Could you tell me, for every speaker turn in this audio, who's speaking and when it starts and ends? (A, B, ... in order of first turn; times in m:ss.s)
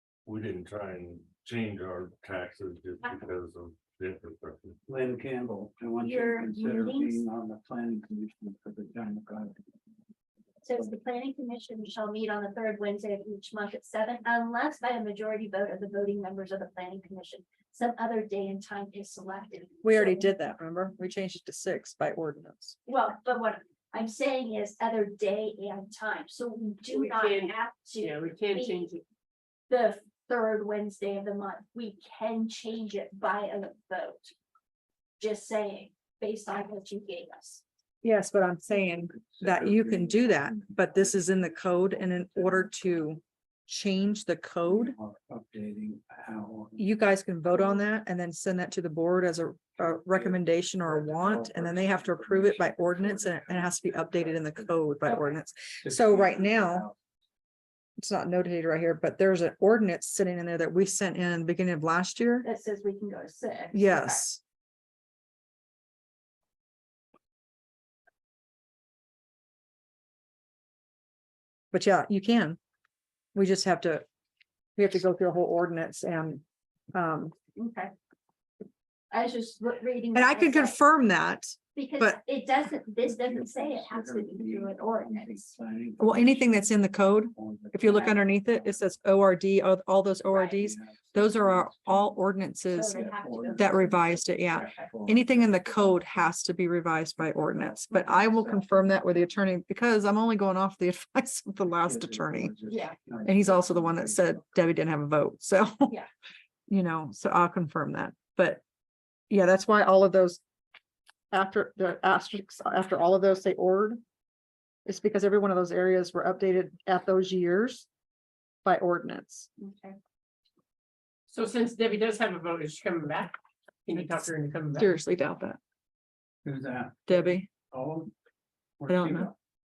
0:00.2-0:04.8 A
0:04.9-0:09.6 B
0:06.0-0:07.2 C
0:10.6-0:20.3 C
0:19.8-0:22.8 D
0:22.9-0:28.9 C
0:26.9-0:29.0 E
0:29.7-0:34.3 C
0:35.2-0:37.6 C
0:38.0-0:45.0 D
0:39.1-0:43.0 B
0:44.7-0:46.8 B
0:46.8-0:56.9 D
0:50.0-0:57.0 B
0:58.0-1:02.5 D
1:02.4-1:04.2 C
1:03.7-1:04.4 D
1:11.7-1:12.6 D
1:13.3-1:14.1 D
1:14.8-1:16.4 D
1:16.9-1:17.3 D
1:17.6-1:17.9 C
1:19.1-1:20.8 C
1:20.1-1:22.2 D
1:21.8-1:25.6 C
1:23.0-1:26.7 B
1:26.0-1:33.0 D
1:27.3-1:28.9 B
1:30.3-1:32.2 B
1:32.7-1:34.2 C
1:32.9-1:36.2 B
1:33.6-1:42.5 D
1:37.5-1:39.1 B
1:41.7-1:44.4 B
1:42.7-1:43.0 C
1:43.2-1:45.9 D
1:46.7-1:48.6 D
1:49.3-1:50.4 D
1:51.3-1:54.0 D
1:54.9-1:57.9 D
1:58.6-1:59.5 D
1:59.6-2:00.0 C
2:01.3-2:05.0 E
2:03.9-2:05.6 D
2:06.4-2:08.1 B
2:07.1-2:07.5 D
2:08.8-2:09.3 B
2:08.9-2:09.3 D